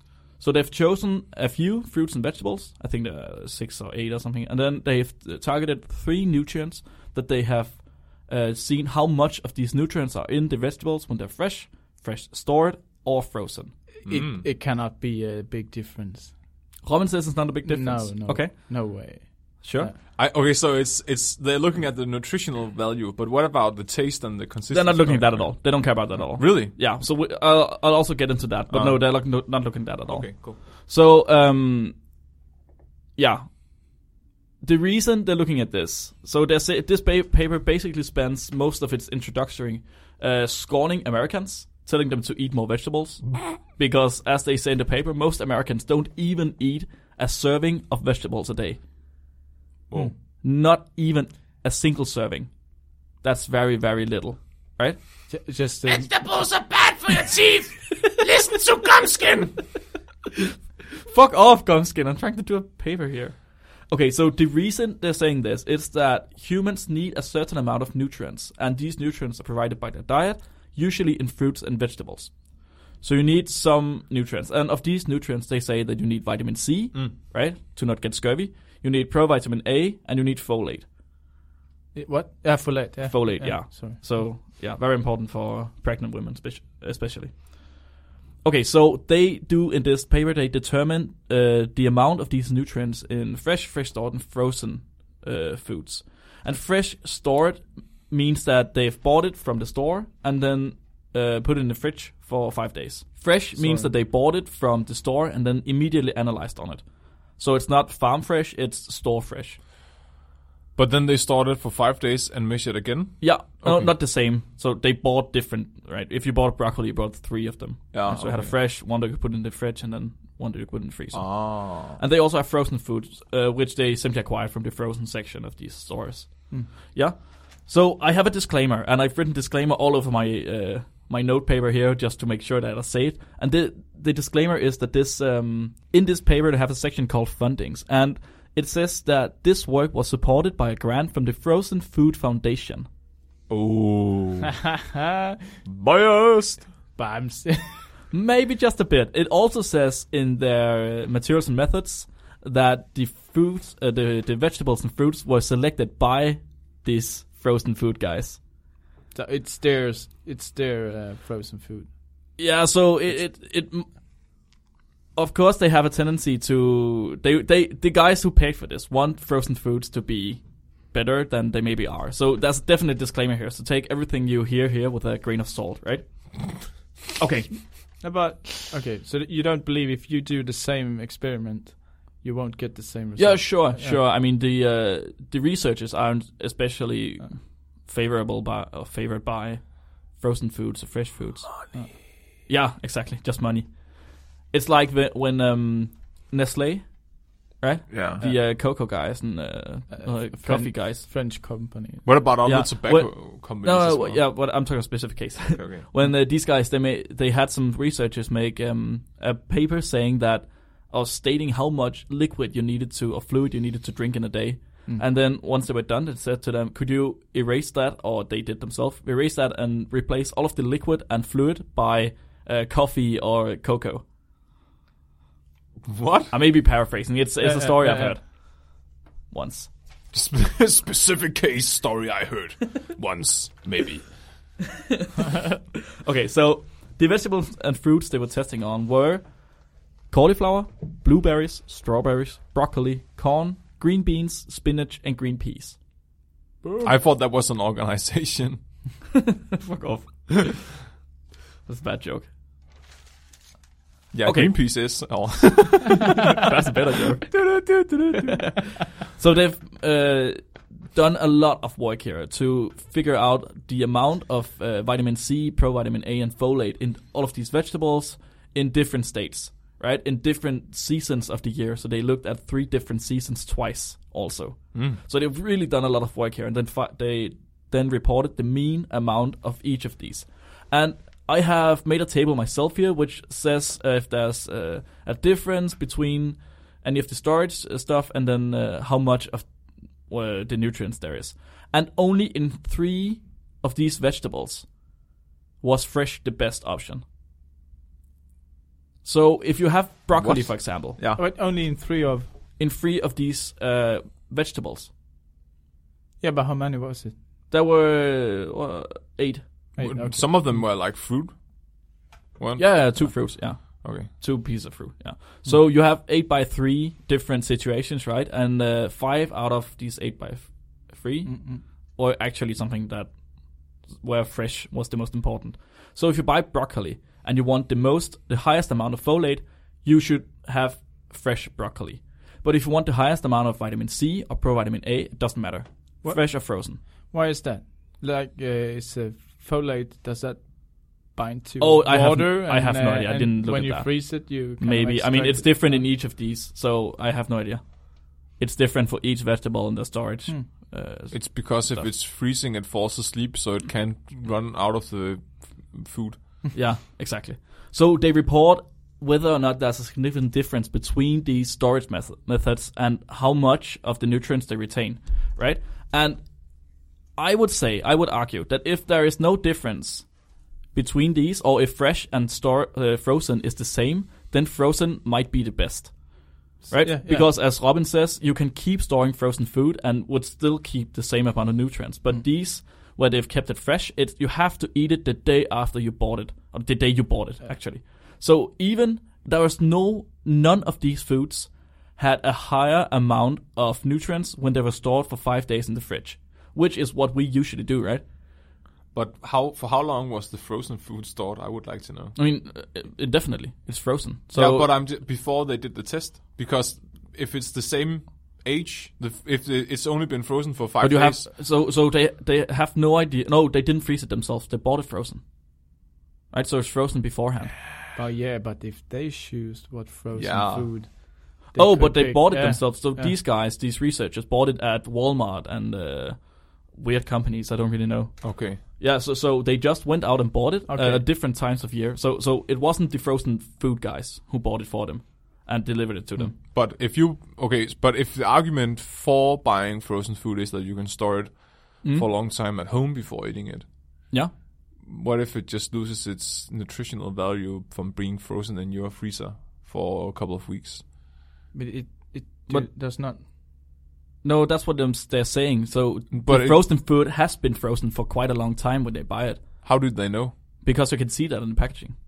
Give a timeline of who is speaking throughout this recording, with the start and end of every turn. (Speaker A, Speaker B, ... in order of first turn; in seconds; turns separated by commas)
Speaker A: 0.3-13.8, Speaker B: 14.0-16.4, Speaker C: 14.1-14.4, Speaker A: 16.8-19.9, Speaker B: 17.7-20.0, Speaker C: 20.1-26.8, Speaker A: 24.7-32.0, Speaker C: 28.7-29.5, Speaker C: 30.1-30.6, Speaker A: 33.2-34.0, Speaker A: 34.6-48.8, Speaker A: 50.4-55.3, Speaker B: 55.3-56.1, Speaker D: 55.9-59.6, Speaker A: 61.1-80.9, Speaker B: 82.0-84.3, Speaker A: 83.0-87.8, Speaker A: 88.4-109.6, Speaker B: 103.5-103.9, Speaker C: 110.8-114.0, Speaker A: 113.2-142.9, Speaker C: 117.9-118.6, Speaker C: 121.1-122.0, Speaker C: 143.5-144.5, Speaker C: 145.7-146.7, Speaker B: 146.9-147.9, Speaker A: 148.1-158.4, Speaker B: 159.1-161.9, Speaker A: 162.4-163.9, Speaker A: 165.2-178.0, Speaker B: 178.0-184.0, Speaker A: 183.2-191.7, Speaker A: 192.5-201.1, Speaker C: 197.9-198.2, Speaker B: 198.2-198.4, Speaker B: 199.9-202.1, Speaker C: 202.1-204.3, Speaker A: 202.4-224.0, Speaker C: 205.5-205.9, Speaker C: 225.8-226.4, Speaker A: 226.3-229.7, Speaker B: 227.4-228.2, Speaker C: 230.1-234.3, Speaker A: 236.0-245.8, Speaker B: 246.6-246.9, Speaker C: 246.8-248.6, Speaker A: 249.6-250.8, Speaker A: 251.7-252.3, Speaker C: 254.1-256.2, Speaker A: 254.2-255.2, Speaker A: 256.2-257.4, Speaker C: 257.3-258.4, Speaker A: 259.1-294.9, Speaker C: 274.7-275.0, Speaker A: 295.6-297.0, Speaker A: 299.0-301.0, Speaker C: 300.2-301.2, Speaker B: 301.2-302.3, Speaker A: 302.6-304.9, Speaker B: 306.2-307.2, Speaker A: 307.5-309.7, Speaker B: 309.8-310.6, Speaker C: 309.8-311.9, Speaker C: 312.4-314.1, Speaker A: 312.6-336.8, Speaker B: 321.2-321.6, Speaker B: 336.0-345.9, Speaker A: 341.6-351.9, Speaker C: 351.1-356.3, Speaker A: 356.5-398.0, Speaker B: 376.7-377.3, Speaker C: 398.9-402.1, Speaker A: 402.1-404.7, Speaker C: 404.3-411.3, Speaker A: 410.8-415.8, Speaker A: 416.3-417.6, Speaker B: 417.9-423.1, Speaker C: 420.1-420.7, Speaker A: 421.5-436.4, Speaker C: 428.2-428.6, Speaker B: 430.7-431.1, Speaker C: 436.4-443.7, Speaker A: 441.8-442.1, Speaker C: 444.8-450.8, Speaker B: 451.5-453.2, Speaker A: 454.2-459.7, Speaker C: 456.1-456.7, Speaker C: 459.6-460.4, Speaker A: 460.6-462.0